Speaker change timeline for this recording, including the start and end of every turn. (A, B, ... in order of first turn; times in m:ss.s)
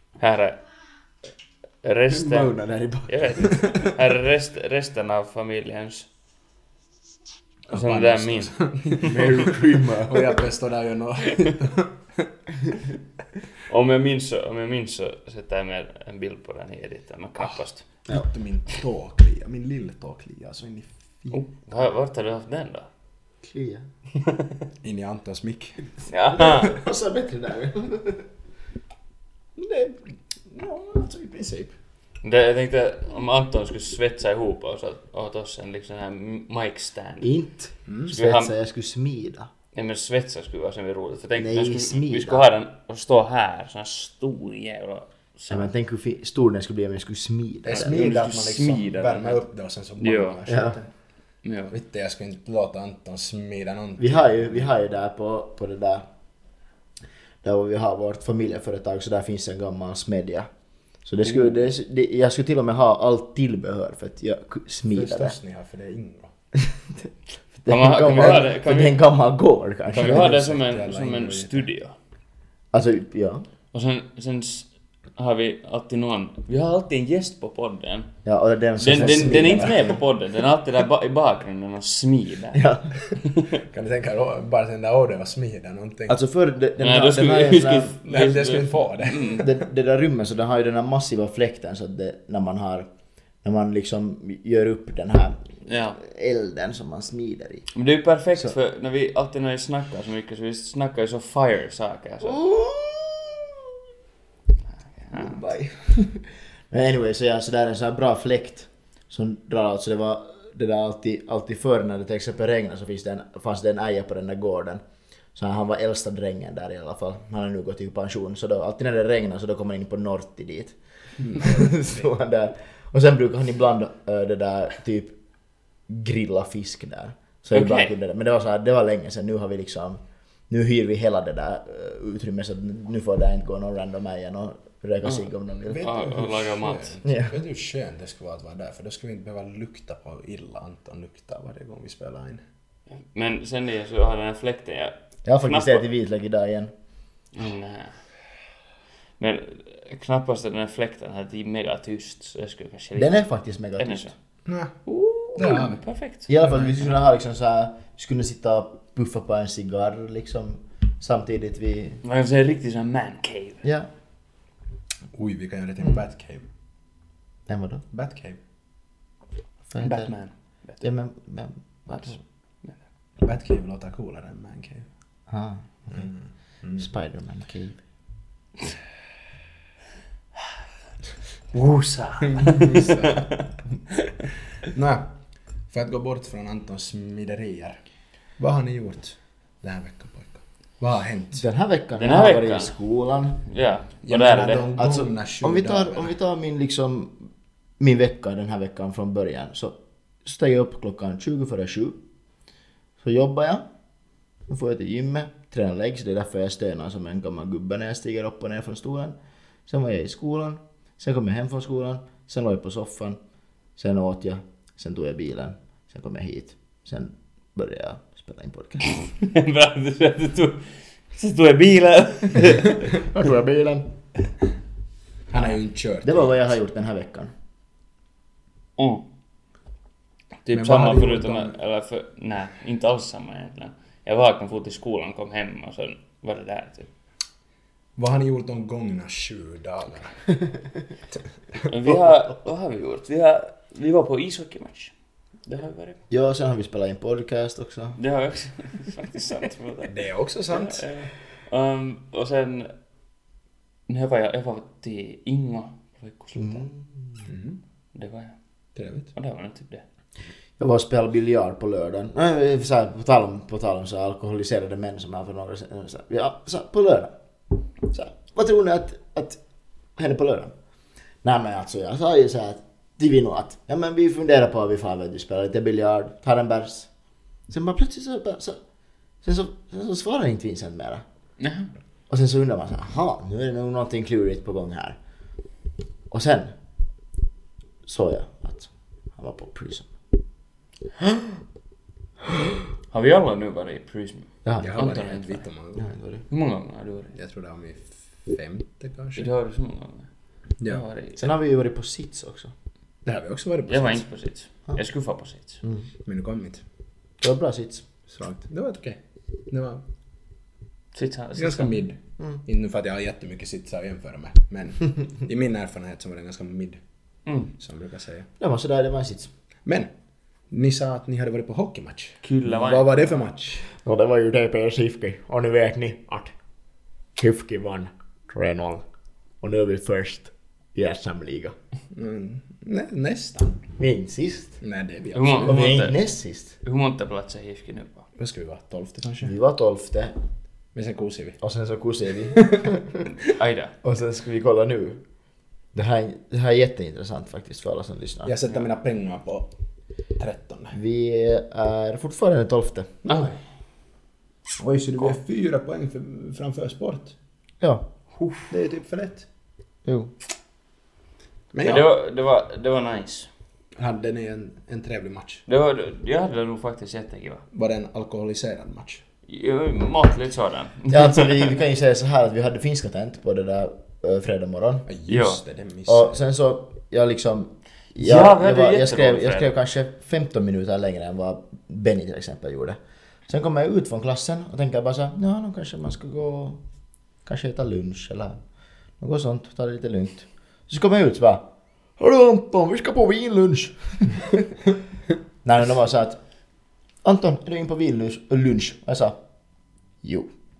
0:00.2-0:00.6 A
0:01.8-0:02.5 A
0:02.1-0:03.9 B
0:03.1-0:06.1 A
0:07.7-0:11.9 C
0:07.7-0:08.5 A
0:09.0-0:10.4 B
0:13.7-0:17.9 A
0:17.4-0:21.4 C
0:21.3-0:22.9 A
0:23.4-0:23.8 B
0:24.8-0:25.9 C
0:26.1-0:26.8 A
0:26.4-0:28.2 B
0:29.6-0:30.0 C
0:30.5-0:31.7 C
0:32.2-0:37.3 A
0:37.2-0:39.5 B
0:37.9-0:38.1 C
0:38.1-0:38.5 A
0:39.8-0:45.7 A
0:41.4-0:42.4 B
0:45.5-0:48.0 B
0:47.6-0:50.9 C
0:47.7-0:49.4 A
0:50.0-0:50.4 A
0:50.4-0:50.8 B
0:51.4-0:51.7 A
0:51.7-0:54.7 C
0:54.0-0:56.1 B
0:57.4-1:00.5 B
1:01.0-1:05.4 B
1:04.9-1:06.3 C
1:07.6-1:10.4 B
1:07.7-1:09.0 A
1:08.2-1:08.4 C
1:09.9-1:11.6 C
1:09.9-1:11.9 A
1:12.7-1:13.4 B
1:13.7-1:18.1 A
1:18.2-1:19.9 B
1:18.8-1:22.6 A
1:18.9-1:19.9 C
1:22.5-1:22.9 B
1:23.2-1:23.6 A
1:23.5-1:26.2 C
1:26.1-1:27.9 B
1:26.8-1:29.5 A
1:28.0-1:29.5 C
1:29.4-1:32.9 B
1:33.4-1:37.7 B
1:35.6-1:36.0 A
1:37.7-1:42.4 A
1:42.2-1:43.5 B
1:45.0-1:45.4 A
1:45.1-1:54.8 B
1:55.4-2:05.2 B
2:01.2-2:02.0 C
2:05.9-2:15.9 B
2:07.5-2:07.9 A
2:15.0-2:16.9 A
2:15.7-2:22.4 C
2:17.0-2:17.4 B
2:23.1-2:25.8 A
2:25.2-2:26.7 B
2:27.3-2:28.0 A
2:29.2-2:33.1 A
2:33.0-2:34.1 B
2:33.8-2:34.1 A
2:34.4-2:34.7 C
2:34.9-2:36.3 A
2:35.4-2:35.8 C
2:36.3-2:42.0 B
2:42.0-2:43.6 A
2:43.6-2:43.9 B
2:45.1-2:46.5 C
2:47.5-2:47.8 B
2:47.9-2:48.4 C
2:49.7-2:50.1 B
2:49.8-2:50.3 C
2:50.8-2:52.2 B
2:51.9-2:52.8 A
2:53.2-2:54.9 C
2:55.3-2:56.1 B
2:55.9-2:56.9 C
2:56.8-2:57.8 B
3:01.5-3:03.5 A
3:02.3-3:03.3 C
3:04.6-3:05.1 C
3:05.7-3:07.8 C
3:08.4-3:11.4 C
3:11.4-3:13.4 B
3:12.0-3:12.8 A
3:13.5-3:14.7 A
3:14.0-3:16.1 C
3:14.8-3:22.0 B
3:23.0-3:23.6 B
3:24.5-3:29.2 B
3:29.7-3:33.2 B
3:33.8-3:38.9 B
3:38.9-3:42.8 A
3:42.9-3:43.9 B
3:45.3-3:46.4 C
3:46.0-3:47.3 B
3:48.8-3:49.0 A
3:50.4-3:56.9 A
3:50.5-3:51.5 C
3:58.0-4:00.2 C
4:01.6-4:01.9 C
4:01.7-4:04.9 A
4:05.4-4:06.0 A
4:06.1-4:08.0 B
4:08.0-4:09.9 A
4:09.9-4:10.9 C
4:10.5-4:12.7 A
4:13.9-4:16.6 A
4:16.4-4:17.2 B
4:17.2-4:17.6 C
4:17.9-4:18.4 A
4:18.8-4:19.1 C
4:19.1-4:19.8 A
4:20.6-4:27.2 B
4:27.8-4:29.4 B
4:30.0-4:30.5 B
4:31.2-4:36.9 B
4:37.5-4:38.6 B
4:39.2-4:41.0 B
4:41.4-4:41.7 A
4:42.1-4:45.0 B
4:46.1-4:46.5 B
4:47.9-4:49.9 B
4:52.9-4:55.4 A
4:54.4-4:54.7 B
4:54.6-4:55.9 C
4:55.8-4:56.2 B
4:56.3-4:57.1 A
4:57.1-4:59.3 C
4:59.2-5:00.1 A
5:00.7-5:01.3 A
5:01.2-5:02.5 B
5:03.0-5:04.0 C
5:03.7-5:05.6 A
5:06.0-5:06.6 C
5:07.2-5:07.9 B
5:08.1-5:09.0 C
5:09.5-5:09.8 C
5:10.9-5:11.8 A
5:11.4-5:16.8 C
5:17.6-5:18.3 C
5:18.4-5:19.3 B
5:19.6-5:19.9 C
5:20.5-5:23.7 C
5:22.2-5:23.1 A
5:23.7-5:26.3 B
5:27.2-5:28.8 B
5:29.4-5:31.5 B
5:31.9-5:33.6 C
5:33.8-5:34.6 B
5:34.6-5:35.6 C
5:35.1-5:36.0 A
5:35.4-5:36.5 B
5:36.6-5:38.0 A
5:38.2-5:39.3 C
5:39.2-5:40.1 B
5:40.8-5:41.4 C
5:41.4-5:43.0 B
5:42.4-5:42.7 C
5:43.2-5:43.7 A
5:43.8-5:45.0 B
5:45.7-5:48.3 B
5:48.2-5:49.5 C
5:50.2-5:50.8 C
5:50.7-5:53.0 B
5:53.0-5:53.4 C
5:53.1-5:53.4 A
5:54.6-5:57.1 C
5:57.6-5:57.9 B
5:58.1-5:58.5 A
5:58.5-5:59.3 C
5:59.8-6:00.1 B
6:01.5-6:01.8 C
6:01.6-6:03.3 A
6:03.8-6:05.4 C
6:05.5-6:07.4 A
6:07.5-6:09.0 C
6:09.3-6:11.5 A
6:10.9-6:14.9 B
6:14.9-6:16.2 C
6:15.1-6:15.4 A
6:15.9-6:26.6 B
6:18.0-6:19.5 A
6:27.2-6:28.4 B
6:29.0-6:31.4 B
6:32.0-6:34.3 B
6:35.4-6:36.2 B
6:37.0-6:39.2 B
6:40.0-6:40.3 B